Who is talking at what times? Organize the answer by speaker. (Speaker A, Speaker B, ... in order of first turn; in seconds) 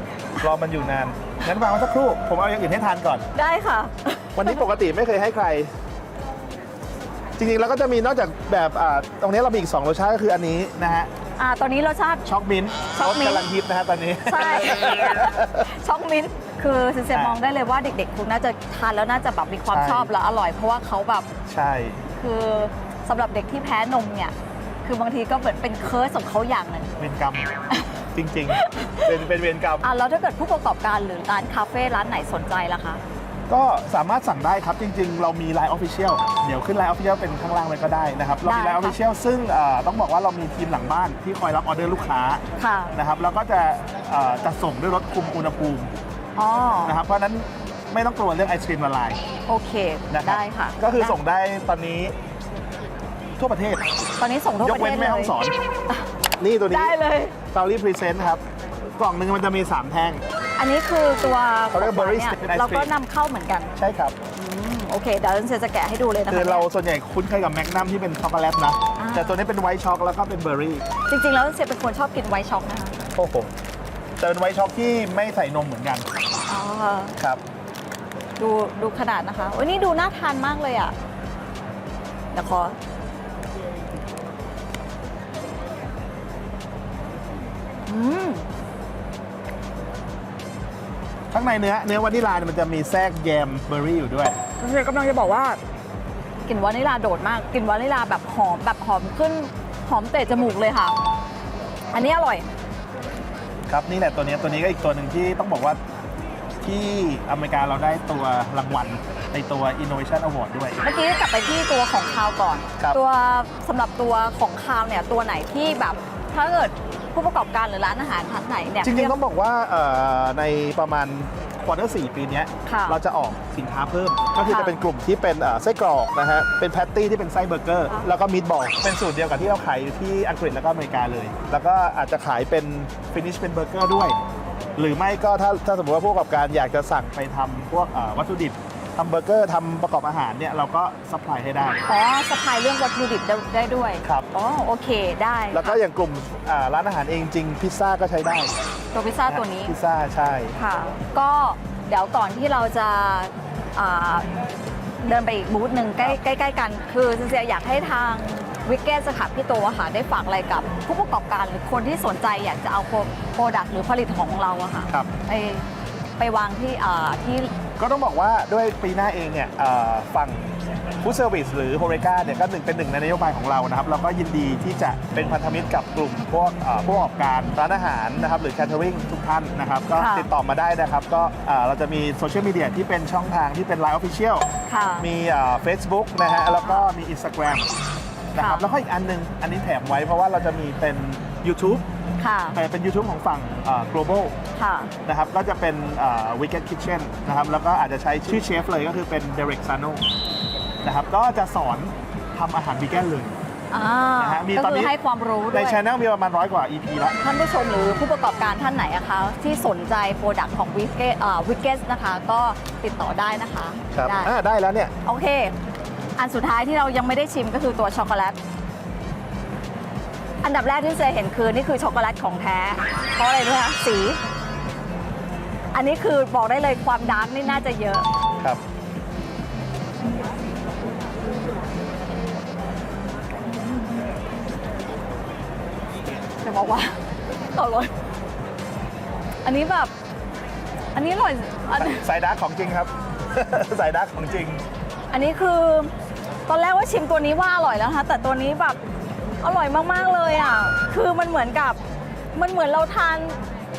Speaker A: 0.4-3.2, 4.4-5.7, 7.4-11.1, 12.3-15.7, 17.1-17.4, 19.7-20.1, 21.5-22.1, 27.0-27.5, 28.1-29.9, 33.5-45.9, 46.9-49.2, 50.1-52.2, 53.4-53.8, 54.6-55.5, 56.4-57.0, 57.5-58.4, 59.0-60.2, 61.7-62.9, 63.8-64.2, 66.3-70.8, 73.1-73.5, 74.2-76.1, 91.3-94.4, 103.7-105.8, 106.6-110.8, 118.8-134.2, 134.8-141.8, 145.5-148.5, 149.3-150.6, 167.8-184.5, 185.0-187.7, 188.3-191.8, 192.6-194.3, 195.1-200.0, 200.8-203.4, 204.2-204.9, 205.5-207.2, 213.9-214.9, 241.8-244.6
Speaker B: 3.4-4.7, 11.4-12.3, 12.9-13.5, 14.2-21.3, 22.1-26.9, 28.5-29.2, 29.8-33.0, 38.4-39.0, 42.6-42.9, 46.4-47.0, 49.5-51.2, 54.2-55.4, 56.7-57.4, 60.6-63.7, 64.3-66.7, 69.0-69.4, 71.1-73.0, 76.5-77.2, 78.4-81.0, 82.3-82.8, 87.9-88.5, 94.6-95.6, 96.5-101.0, 101.9-102.5, 110.8-119.2, 122.7-123.0, 124.4-124.8, 141.8-145.8, 148.9-149.7, 150.6-154.3, 155.0-165.7, 166.2-167.5, 179.9-180.3, 184.7-185.1, 186.6-186.9, 188.4-188.7, 192.2-192.6, 194.6-194.9, 203.7-205.8, 207.2-214.3, 215.0-215.6, 216.2-218.4, 220.4-224.2, 225.7-228.1, 236.4-237.0, 237.5-237.9, 239.4-239.9, 240.9-242.1, 245.1-245.9, 246.5-248.8, 249.4-251.8, 252.3-253.4